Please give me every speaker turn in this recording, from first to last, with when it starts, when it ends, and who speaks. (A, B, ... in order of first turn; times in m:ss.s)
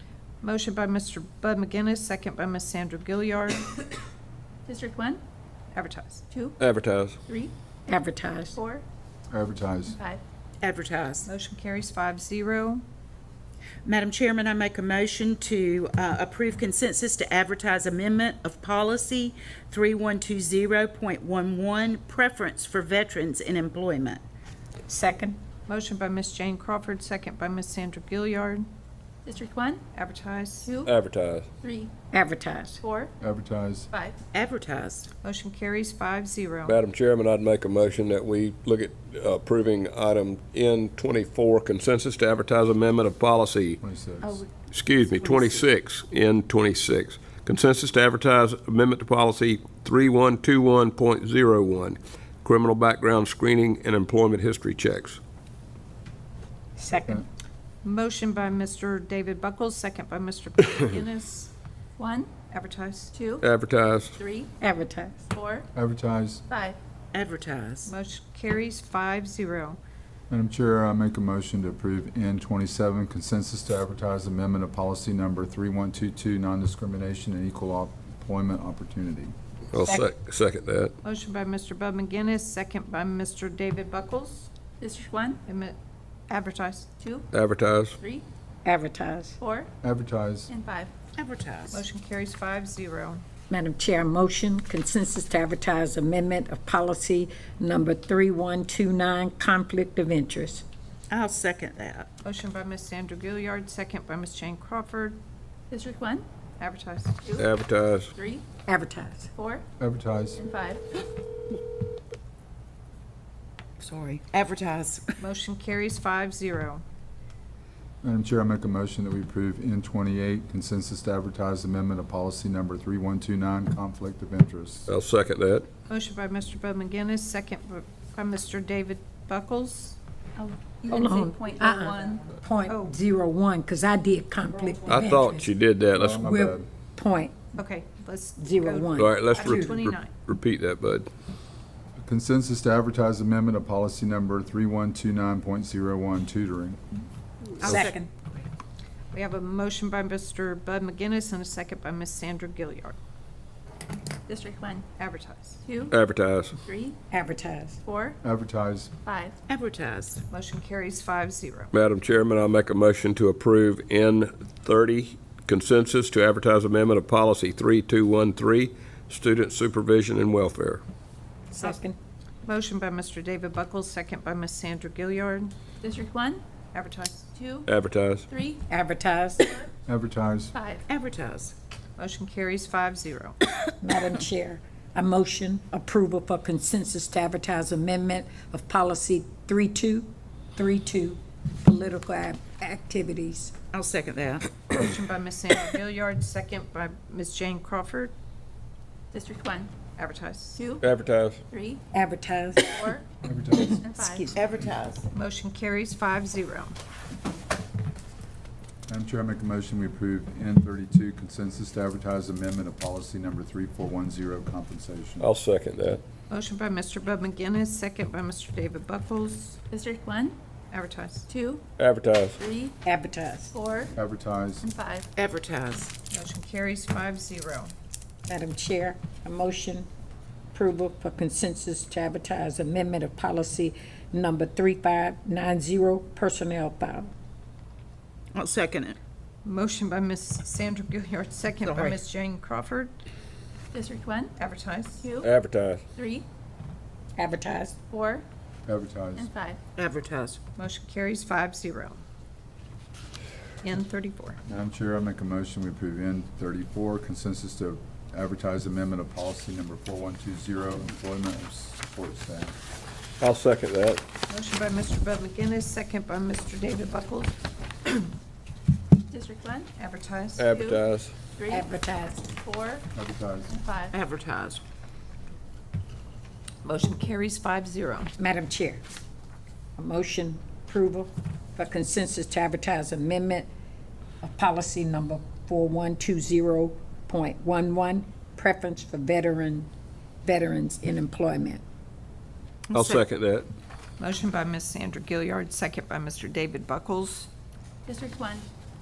0:00.4-0:03.8 A
0:04.6-0:05.2 B
0:05.7-0:06.2 A
0:06.3-0:06.6 B
0:06.6-0:07.2 C
0:07.3-0:07.5 B
0:07.9-0:08.6 D
0:08.5-0:08.8 B
0:09.3-0:10.0 E
0:10.0-0:10.2 B
0:10.6-0:11.3 F
0:11.2-0:12.8 A
0:13.8-0:24.2 F
0:24.9-0:25.4 D
0:25.7-0:28.7 A
0:29.2-0:29.8 B
0:30.0-0:30.7 A
0:30.6-0:30.9 B
0:30.8-0:31.5 C
0:31.6-0:31.9 B
0:32.1-0:32.8 D
0:32.8-0:33.1 B
0:33.2-0:33.9 E
0:33.9-0:34.2 B
0:34.3-0:35.1 F
0:35.2-0:36.8 A
0:36.7-0:43.8 C
0:43.8-0:44.4 E
0:44.2-0:44.5 B
0:44.6-0:55.2 C
0:56.8-0:57.2 D
0:57.8-1:01.5 A
1:02.0-1:02.3 B
1:02.5-1:03.1 A
1:03.1-1:03.5 B
1:03.4-1:04.2 C
1:04.2-1:04.5 B
1:04.6-1:05.3 D
1:05.3-1:05.7 B
1:05.8-1:06.4 E
1:06.5-1:06.8 B
1:07.1-1:07.9 F
1:07.9-1:09.8 A
1:10.3-1:19.3 E
1:19.7-1:20.9 C
1:19.8-1:20.1 D
1:21.0-1:24.5 A
1:24.8-1:25.4 B
1:25.5-1:25.8 A
1:26.3-1:26.9 A
1:27.0-1:27.3 B
1:27.3-1:28.0 C
1:28.0-1:28.2 B
1:28.6-1:29.4 D
1:29.4-1:29.7 B
1:29.8-1:30.5 E
1:30.5-1:30.9 B
1:31.2-1:31.8 F
1:31.7-1:33.2 A
1:33.5-1:40.6 D
1:41.1-1:42.1 F
1:42.2-1:45.2 A
1:45.7-1:46.3 B
1:46.6-1:47.2 A
1:47.4-1:48.1 C
1:48.2-1:48.5 B
1:48.7-1:49.3 D
1:49.4-1:49.6 B
1:49.8-1:50.4 E
1:50.4-1:50.8 B
1:53.8-1:55.2 F
1:55.2-1:56.8 A
1:58.0-2:04.9 E
2:04.9-2:05.7 C
2:05.9-2:10.0 A
2:10.4-2:12.3 B
2:10.9-2:15.5 D
2:12.7-2:12.9 A
2:14.9-2:16.2 C
2:16.0-2:16.7 E
2:16.2-2:17.5 D
2:17.6-2:20.1 A
2:18.4-2:19.7 D
2:18.9-2:21.1 C
2:22.0-2:26.8 E
2:27.6-2:28.1 D
2:27.6-2:28.0 A
2:27.6-2:27.9 C
2:29.1-2:33.0 A
2:34.3-2:34.9 B
2:35.0-2:35.6 A
2:35.6-2:35.9 B
2:35.9-2:36.6 C
2:36.6-2:37.0 B
2:37.1-2:37.8 D
2:37.8-2:38.2 B
2:38.2-2:38.9 E
2:39.0-2:39.4 B
2:39.5-2:40.2 F
2:40.3-2:41.7 A
2:41.7-2:50.8 C
2:51.5-2:52.0 D
2:52.4-2:55.5 A
2:55.8-2:56.4 B
2:56.7-2:57.3 A
2:57.3-2:57.7 B
2:57.7-2:58.2 C
2:58.3-2:58.6 B
2:58.7-2:59.6 D
2:59.9-3:00.5 E
3:00.5-3:00.8 B
3:00.9-3:01.6 F
3:02.0-3:03.4 A
3:03.8-3:13.5 D
3:13.7-3:14.5 F
3:14.7-3:18.1 A
3:19.1-3:19.7 B
3:20.0-3:20.6 A
3:20.6-3:20.8 B
3:20.8-3:21.4 C
3:21.5-3:21.8 B
3:21.9-3:22.9 D
3:22.6-3:23.1 B
3:23.2-3:23.9 E
3:23.8-3:24.3 B
3:24.0-3:25.0 F
3:25.1-3:26.8 A
3:28.9-3:35.3 E
3:35.2-3:36.0 C
3:36.3-3:39.6 A
3:39.7-3:40.4 B
3:40.7-3:41.3 A
3:41.3-3:41.6 B
3:41.8-3:42.4 C
3:42.4-3:42.8 B
3:42.8-3:43.6 D
3:43.5-3:43.9 B
3:43.9-3:44.7 E
3:44.6-3:45.1 B
3:45.2-3:45.9 F
3:46.1-3:47.7 A
3:48.3-3:49.9 D
3:50.5-3:57.1 D
3:58.3-3:59.0 F
3:59.4-4:03.0 A
4:01.6-4:02.0 F
4:03.7-4:04.3 B
4:04.4-4:05.0 A
4:05.0-4:05.3 B
4:05.2-4:05.8 C
4:05.9-4:06.2 B
4:07.2-4:07.8 D
4:07.9-4:08.2 B
4:08.7-4:09.3 E
4:09.2-4:09.6 B
4:09.8-4:10.4 F
4:10.6-4:12.0 A
4:13.6-4:14.4 A
4:14.5-4:22.5 E
4:23.2-4:24.0 C
4:24.3-4:28.1 A
4:29.1-4:29.7 B
4:29.8-4:30.5 A
4:30.4-4:31.1 C
4:30.5-4:30.8 B
4:31.4-4:32.8 B
4:31.5-4:32.3 D
4:32.9-4:33.5 E
4:33.5-4:33.9 B
4:33.9-4:34.6 F
4:36.6-4:38.1 A
4:38.2-4:38.8 D
4:39.8-4:43.5 D
4:44.2-4:49.7 D
4:50.2-4:51.6 D
4:52.7-4:53.5 C
4:52.7-4:53.0 F
4:54.0-4:57.3 A
4:57.9-4:58.5 B